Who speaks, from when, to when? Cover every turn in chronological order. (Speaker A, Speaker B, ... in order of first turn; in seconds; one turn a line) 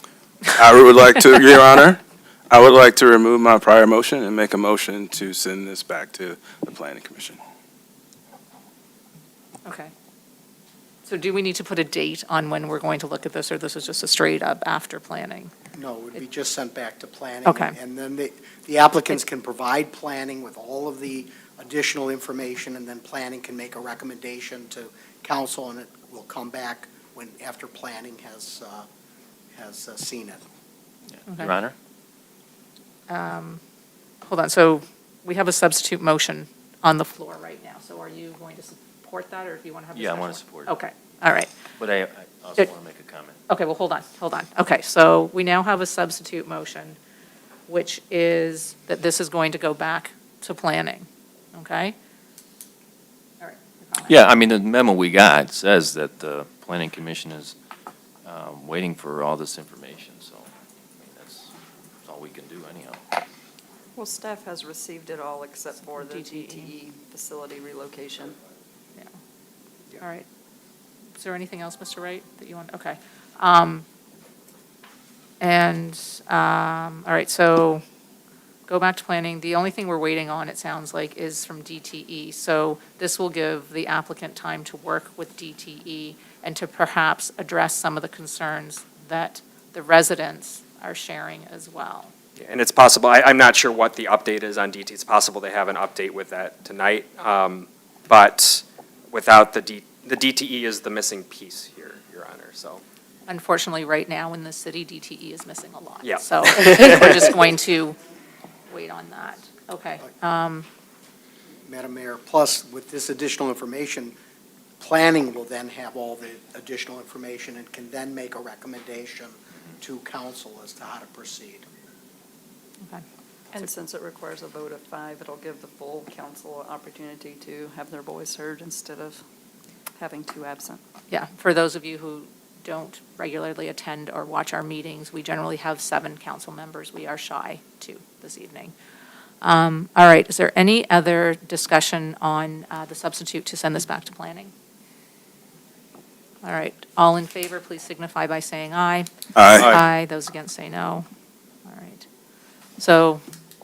Speaker A: 0.5-7.4
Speaker B: 9.6-9.9
Speaker B: 11.0-15.5
Speaker C: 15.7-28.9
Speaker B: 17.4-17.7
Speaker C: 29.5-30.4
Speaker D: 31.1-31.7
Speaker B: 33.1-33.6
Speaker B: 34.2-41.5
Speaker D: 39.9-40.7
Speaker D: 41.8-43.4
Speaker B: 43.5-47.0
Speaker B: 47.7-51.9
Speaker B: 53.4-54.2
Speaker D: 54.1-57.5
Speaker D: 58.2-61.5
Speaker D: 62.0-63.0
Speaker E: 63.9-68.3
Speaker B: 65.8-66.7
Speaker B: 70.0-70.2
Speaker B: 71.2-73.8
Speaker B: 75.4-77.8
Speaker B: 78.7-92.1
Speaker F: 92.4-102.8
Speaker B: 103.3-108.0
Speaker F: 106.0-107.3
Speaker B: 108.7-110.7
Speaker C: 111.6-114.1
Speaker C: 114.8-121.7
Speaker E: 123.5-129.2
Speaker E: 130.0-130.8
Speaker B: 131.1-138.7
Speaker B: 139.4-144.5
Speaker B: 146.4-149.1
Speaker A: 149.3-149.8
Speaker B: 149.6-151.1
Speaker B: 151.7-152.1
Speaker B: 152.8-153.2